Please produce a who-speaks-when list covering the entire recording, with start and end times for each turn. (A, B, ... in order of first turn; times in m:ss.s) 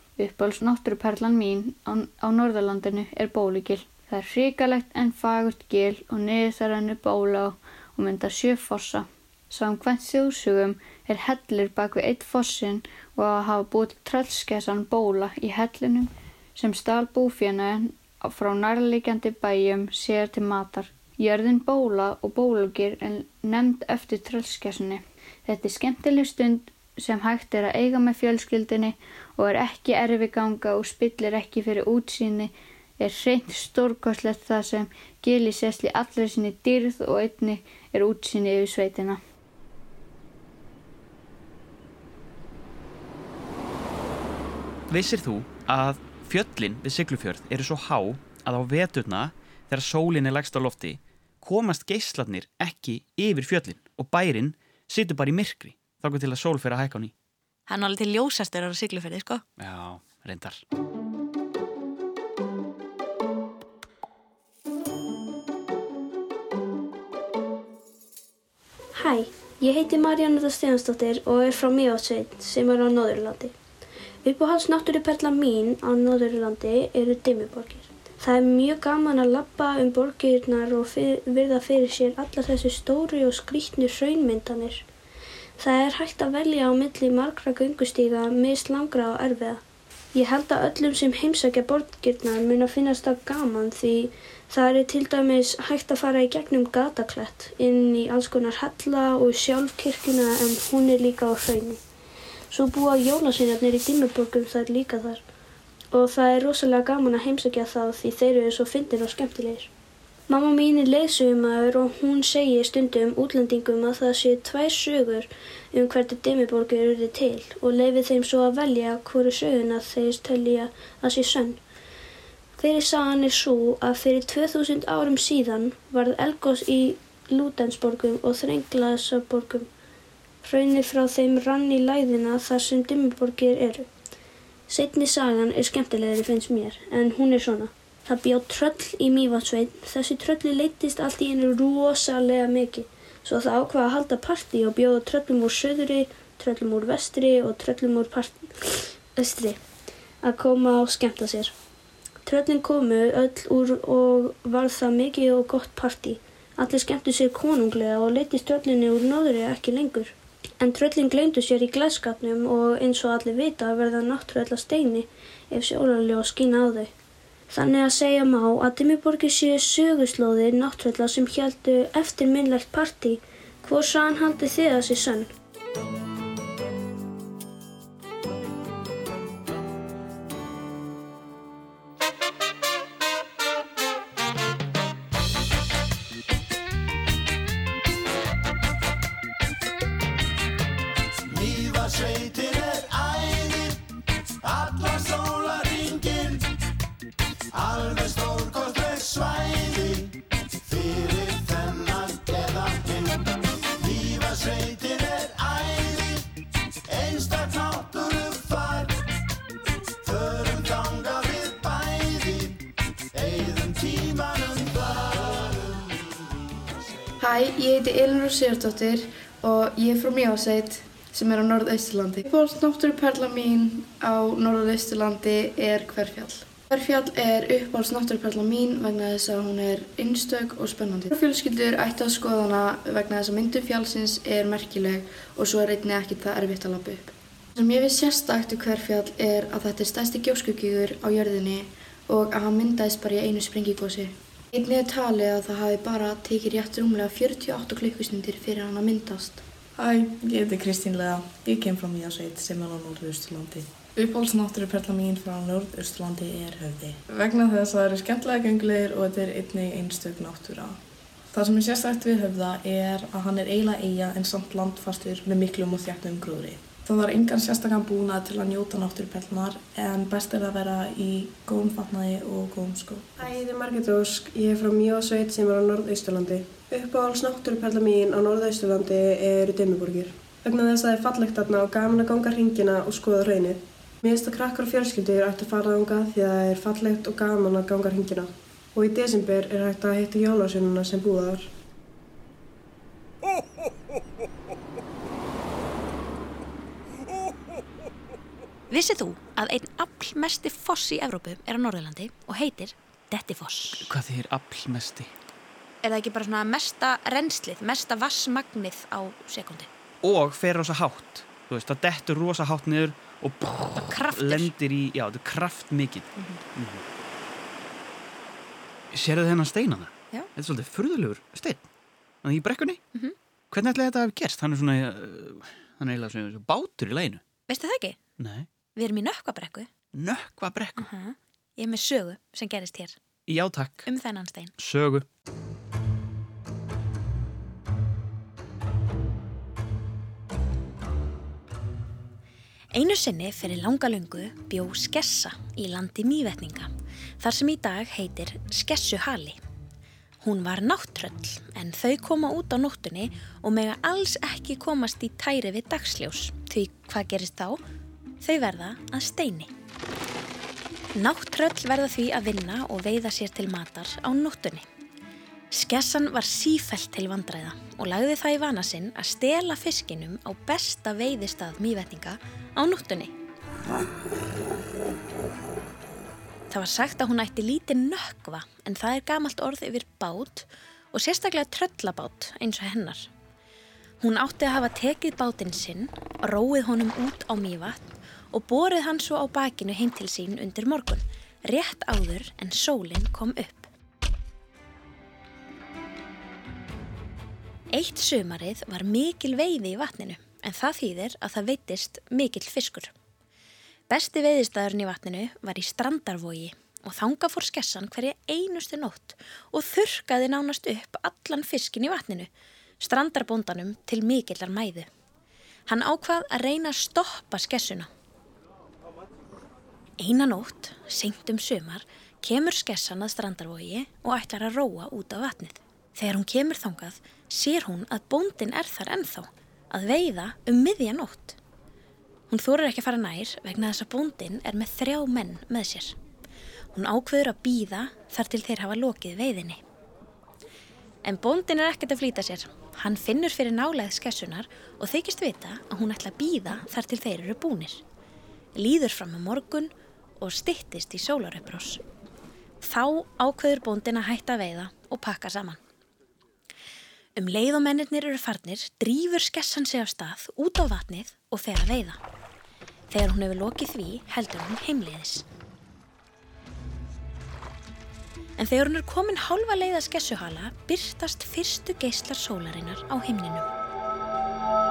0:00.2-0:39.2 A
0:44.9-0:57.1 B
0:57.7-0:59.4 C
0:59.6-1:00.6 B
1:09.0-1:13.5 D
1:14.2-1:24.8 D
1:25.6-1:29.6 D
1:30.2-1:41.8 D
1:42.5-1:45.2 D
1:45.9-1:49.7 D
1:50.3-2:01.6 D
2:02.6-2:09.7 D
2:10.4-2:13.9 D
2:14.7-2:29.6 D
2:30.2-2:31.5 D
2:32.2-2:46.9 D
2:47.5-2:55.3 D
3:37.2-4:09.4 E
4:09.8-4:20.8 F
4:21.3-4:33.1 F
4:33.2-4:51.5 G
4:58.7-5:03.9 C
5:03.8-5:05.1 B
5:05.8-5:09.7 C
5:10.0-5:16.8 B
5:13.8-5:14.5 C
5:16.2-5:16.4 C
5:18.9-5:21.7 B
5:22.2-5:22.8 B
5:23.5-5:27.2 B
5:27.5-5:28.0 C
5:28.2-5:28.5 B
5:28.8-5:29.7 C
5:29.9-5:30.9 B
5:30.8-5:33.0 C
5:33.3-5:33.9 B
5:33.8-5:34.5 C
5:34.6-5:35.1 B
5:42.7-5:46.7 C
5:47.2-5:49.4 C
5:50.2-5:57.6 C
5:58.2-5:59.5 C
6:01.0-6:04.7 C
6:05.5-6:13.1 C
6:16.5-6:23.1 C
6:24.0-6:33.7 C
6:37.7-6:42.9 C
6:43.9-6:54.9 C
6:55.7-6:57.9 C
7:00.0-7:11.4 C
7:12.3-7:16.0 C
7:16.7-7:19.6 C
7:21.0-7:27.8 C
7:28.6-7:31.8 C
7:32.6-7:35.6 C
7:37.2-7:42.0 C
7:42.9-7:45.2 C
7:48.4-7:53.5 C